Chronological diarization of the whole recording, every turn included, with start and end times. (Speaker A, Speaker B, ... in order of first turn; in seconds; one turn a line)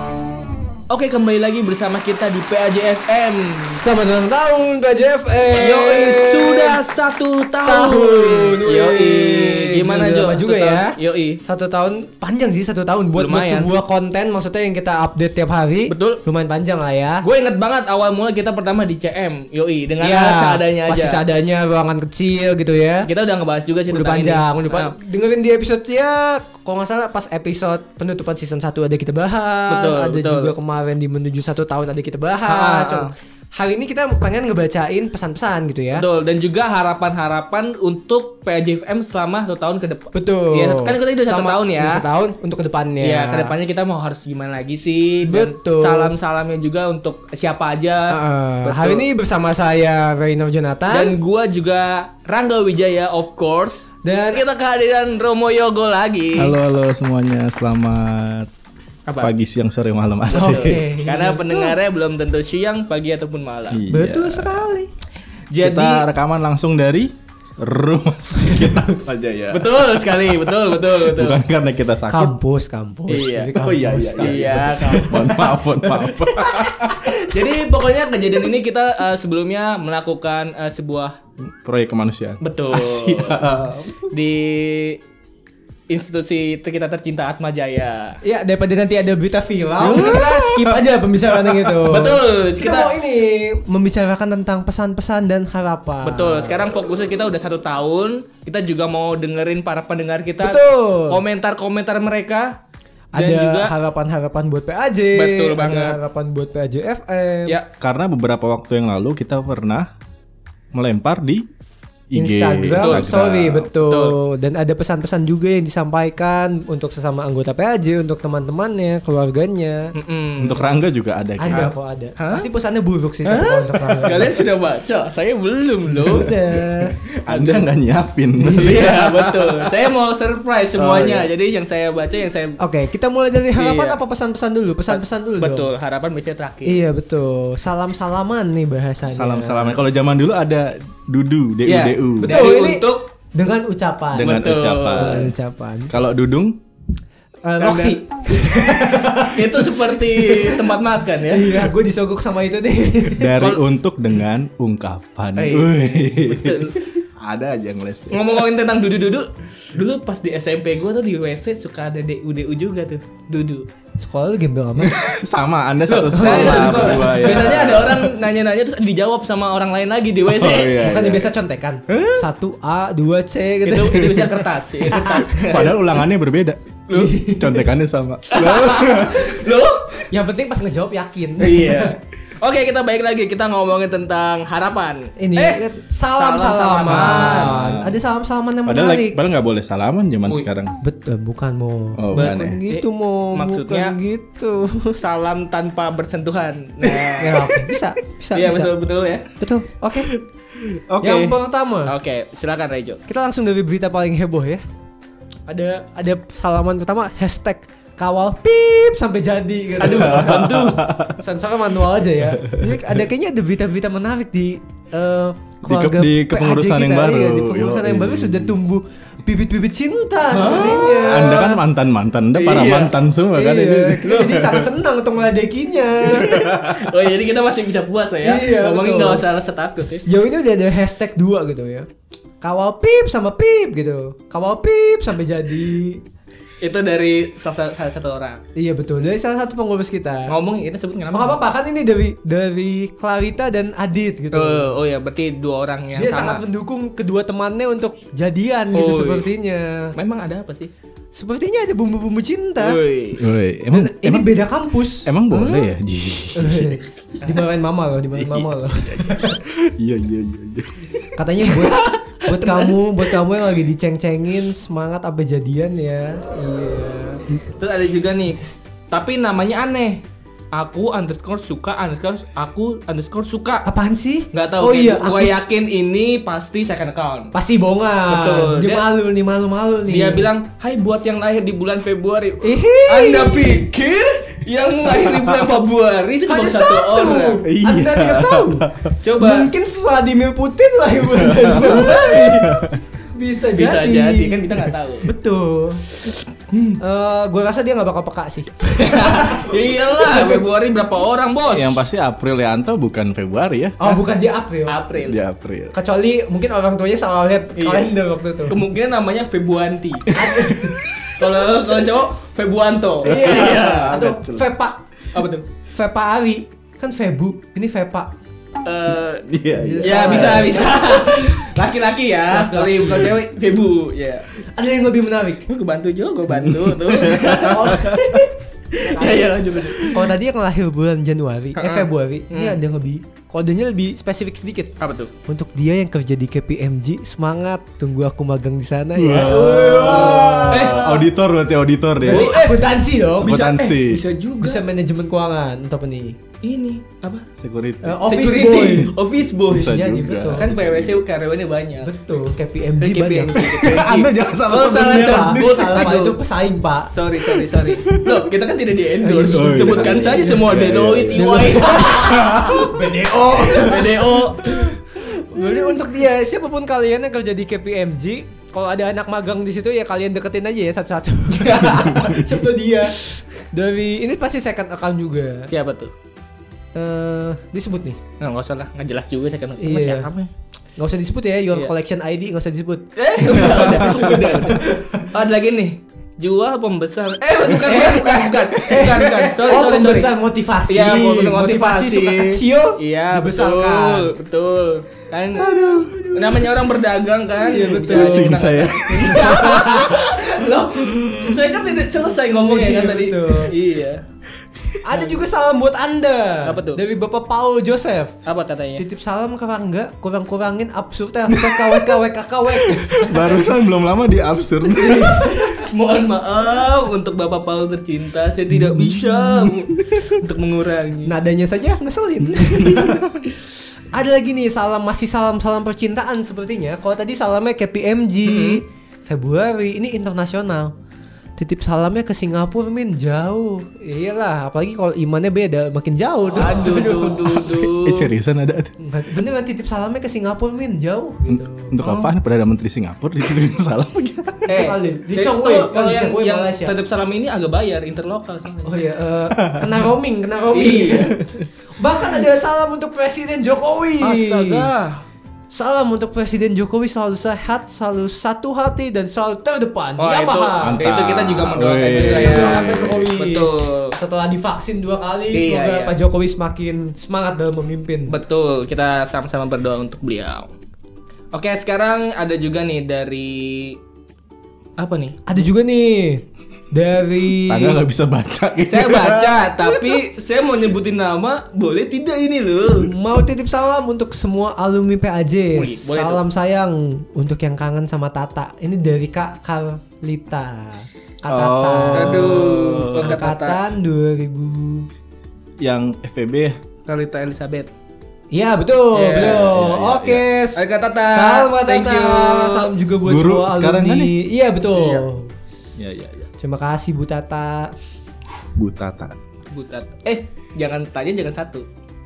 Speaker A: 0.9-3.8
Speaker B: 3.7-6.8
Speaker A: 5.5-11.4
Speaker B: 7.6-17.3
Speaker A: 13.2-13.7
Speaker A: 15.9-16.2
Speaker A: 17.2-21.2
Speaker B: 20.0-23.1
Speaker A: 23.1-24.9
Speaker B: 23.9-36.0
Speaker A: 29.7-30.5
Speaker A: 32.5-33.1
Speaker A: 35.9-42.0
Speaker B: 40.1-43.5
Speaker A: 43.0-49.1
Speaker B: 45.2-46.1
Speaker B: 48.1-51.2
Speaker A: 50.9-56.6
Speaker B: 54.0-54.4
Speaker C: 56.4-58.5
Speaker C: 59.2-60.8
Speaker B: 60.3-61.8
Speaker A: 60.3-63.8
Speaker C: 63.7-64.7
Speaker B: 63.9-64.9
Speaker A: 65.5-66.0
Speaker C: 65.6-72.3
Speaker A: 69.5-71.4
Speaker B: 72.1-77.4
Speaker A: 73.1-73.6
Speaker C: 73.5-77.1
Speaker A: 74.2-75.5
Speaker A: 76.4-81.2
Speaker C: 81.4-84.1
Speaker A: 82.4-85.0
Speaker A: 85.9-88.2
Speaker B: 88.2-96.7
Speaker C: 89.8-90.8
Speaker C: 91.4-91.8
Speaker A: 91.9-92.9
Speaker A: 96.0-102.6
Speaker B: 100.4-101.2
Speaker B: 103.1-107.6
Speaker A: 103.2-103.7
Speaker A: 105.2-106.0
Speaker C: 107.8-109.9
Speaker C: 110.7-111.5
Speaker C: 112.1-113.7
Speaker B: 112.2-119.9
Speaker A: 112.8-113.1
Speaker A: 113.7-114.2
Speaker A: 119.9-120.7
Speaker C: 120.4-121.7
Speaker B: 121.4-124.4
Speaker A: 121.5-122.5
Speaker A: 123.2-126.4
Speaker B: 125.9-127.0
Speaker C: 127.2-129.7
Speaker A: 127.3-127.7
Speaker B: 128.4-129.0
Speaker A: 128.5-132.6
Speaker C: 130.8-131.3
Speaker B: 132.6-135.7
Speaker A: 133.5-134.0
Speaker A: 134.9-136.8
Speaker B: 136.7-139.8
Speaker C: 139.0-142.4
Speaker A: 141.7-143.1
Speaker B: 142.2-145.9
Speaker A: 144.1-145.3
Speaker C: 144.2-145.3
Speaker C: 145.9-146.6
Speaker B: 147.4-153.4
Speaker A: 147.6-151.7
Speaker C: 153.2-158.4
Speaker A: 153.4-153.6
Speaker A: 155.4-156.8
Speaker A: 158.1-163.7
Speaker B: 164.0-165.0
Speaker C: 164.8-168.1
Speaker A: 165.9-170.8
Speaker B: 166.1-167.8
Speaker C: 170.3-171.3
Speaker B: 170.8-175.4
Speaker A: 171.9-172.2
Speaker A: 173.7-175.9
Speaker C: 174.0-174.2
Speaker C: 175.4-176.6
Speaker A: 176.9-177.2
Speaker B: 176.9-177.7
Speaker C: 177.2-179.5
Speaker A: 178.3-180.1
Speaker B: 179.9-181.9
Speaker A: 181.4-185.6
Speaker B: 185.2-189.2
Speaker A: 186.1-187.6
Speaker C: 186.8-188.0
Speaker C: 188.7-190.8
Speaker B: 190.8-195.0
Speaker C: 192.0-192.6
Speaker A: 192.1-194.0
Speaker A: 194.9-197.6
Speaker C: 196.9-197.8
Speaker B: 197.2-198.7
Speaker A: 198.3-199.3
Speaker B: 199.4-200.1
Speaker C: 200.0-201.4
Speaker B: 201.0-202.0
Speaker A: 201.8-203.0
Speaker B: 203.1-204.6
Speaker B: 205.5-221.6
Speaker A: 209.8-210.8
Speaker C: 209.8-211.2
Speaker C: 212.4-212.7
Speaker C: 215.7-218.6
Speaker A: 220.3-221.4
Speaker C: 220.5-224.7
Speaker A: 222.4-222.9
Speaker B: 223.3-226.5
Speaker A: 226.1-230.1
Speaker C: 226.2-226.9
Speaker B: 228.2-229.3
Speaker B: 229.8-231.9
Speaker B: 232.4-236.0
Speaker A: 236.6-238.4
Speaker B: 238.6-240.3
Speaker A: 240.3-241.4
Speaker B: 241.1-244.8
Speaker A: 244.3-246.4
Speaker B: 246.0-249.9
Speaker A: 248.7-249.3
Speaker A: 249.9-250.7
Speaker B: 251.1-252.8
Speaker A: 252.6-253.2
Speaker C: 253.2-254.5
Speaker B: 253.7-255.1
Speaker C: 255.1-256.8
Speaker A: 255.3-255.7
Speaker B: 256.4-259.4
Speaker A: 257.2-257.5
Speaker C: 258.2-261.8
Speaker B: 261.2-267.4
Speaker A: 267.6-268.4
Speaker A: 268.9-273.7
Speaker B: 273.6-275.4
Speaker A: 274.3-277.3
Speaker B: 277.3-280.3
Speaker A: 278.1-278.9
Speaker A: 279.9-287.4
Speaker B: 282.4-283.7
Speaker B: 286.2-295.8
Speaker C: 287.4-288.9
Speaker A: 289.0-289.5
Speaker C: 291.1-292.8
Speaker A: 291.6-292.3
Speaker A: 293.5-295.1
Speaker B: 296.8-300.4
Speaker A: 298.8-301.8
Speaker C: 301.5-304.0
Speaker B: 303.8-304.8
Speaker A: 304.7-305.2
Speaker C: 305.1-305.8
Speaker B: 305.7-308.6
Speaker A: 307.6-307.9
Speaker A: 308.5-314.0
Speaker B: 310.1-310.8
Speaker B: 313.0-314.8
Speaker C: 313.1-314.5
Speaker A: 315.1-315.5
Speaker B: 315.7-318.1
Speaker A: 318.6-319.2
Speaker C: 319.2-320.7
Speaker B: 319.6-321.4
Speaker A: 319.8-324.3
Speaker B: 322.3-323.1
Speaker B: 324.4-325.5
Speaker A: 325.5-328.0
Speaker C: 326.3-328.2
Speaker B: 327.2-341.0
Speaker A: 328.7-329.9
Speaker C: 329.7-330.0
Speaker A: 331.6-332.6
Speaker A: 334.8-335.1
Speaker C: 338.9-342.4
Speaker A: 339.3-341.0
Speaker B: 342.0-343.7
Speaker A: 342.1-344.6
Speaker C: 343.2-344.0
Speaker B: 344.4-346.2
Speaker A: 346.4-347.3
Speaker C: 347.4-348.0
Speaker B: 347.8-349.0
Speaker A: 348.1-351.9
Speaker C: 349.5-351.0
Speaker B: 349.5-350.5
Speaker B: 351.8-353.5
Speaker A: 352.8-356.2
Speaker C: 353.4-355.9
Speaker B: 354.6-356.9
Speaker A: 356.9-364.8
Speaker C: 357.6-358.3
Speaker B: 359.0-360.5
Speaker C: 359.3-362.8
Speaker B: 361.1-375.5
Speaker A: 371.6-371.9
Speaker C: 371.6-372.3
Speaker A: 375.5-375.9
Speaker B: 376.8-378.0
Speaker A: 378.2-380.3
Speaker B: 379.6-380.1
Speaker B: 380.8-385.0
Speaker A: 383.0-390.1
Speaker B: 387.5-394.1
Speaker A: 390.7-404.0
Speaker B: 395.4-396.6
Speaker B: 397.4-398.4
Speaker C: 397.9-399.8
Speaker B: 398.9-400.6
Speaker B: 402.2-403.5
Speaker B: 404.8-408.2
Speaker A: 406.4-406.8
Speaker A: 408.3-408.9
Speaker B: 408.8-413.5
Speaker C: 411.3-412.0
Speaker C: 412.5-415.4
Speaker A: 414.7-421.1
Speaker B: 414.7-415.6
Speaker C: 418.7-420.1
Speaker B: 421.1-423.1
Speaker C: 422.8-423.2
Speaker B: 423.9-430.8
Speaker A: 428.2-428.6
Speaker B: 431.4-437.2
Speaker A: 436.3-438.1
Speaker C: 437.2-438.8
Speaker B: 438.8-442.1
Speaker C: 441.3-444.5
Speaker A: 444.5-448.8
Speaker B: 444.5-446.7
Speaker B: 448.6-451.2
Speaker A: 450.5-451.2
Speaker B: 451.8-454.7
Speaker A: 454.0-455.0
Speaker B: 455.5-460.8
Speaker A: 460.0-464.0
Speaker C: 460.6-463.1
Speaker B: 461.9-468.1
Speaker A: 465.3-466.0
Speaker A: 468.1-470.5
Speaker A: 471.3-473.8
Speaker A: 474.8-475.2
Speaker B: 475.3-477.8
Speaker C: 477.4-479.9
Speaker A: 478.7-482.9
Speaker B: 482.8-494.9
Speaker A: 485.5-486.2
Speaker C: 491.3-493.1
Speaker A: 491.9-493.6
Speaker C: 495.6-496.6
Speaker A: 496.9-497.7
Speaker B: 498.3-505.4
Speaker A: 498.9-499.5
Speaker C: 499.2-500.2
Speaker A: 500.6-502.7
Speaker C: 503.1-504.1
Speaker A: 504.8-505.0
Speaker C: 505.8-506.3
Speaker B: 506.4-507.7
Speaker C: 508.6-509.2
Speaker A: 509.5-511.7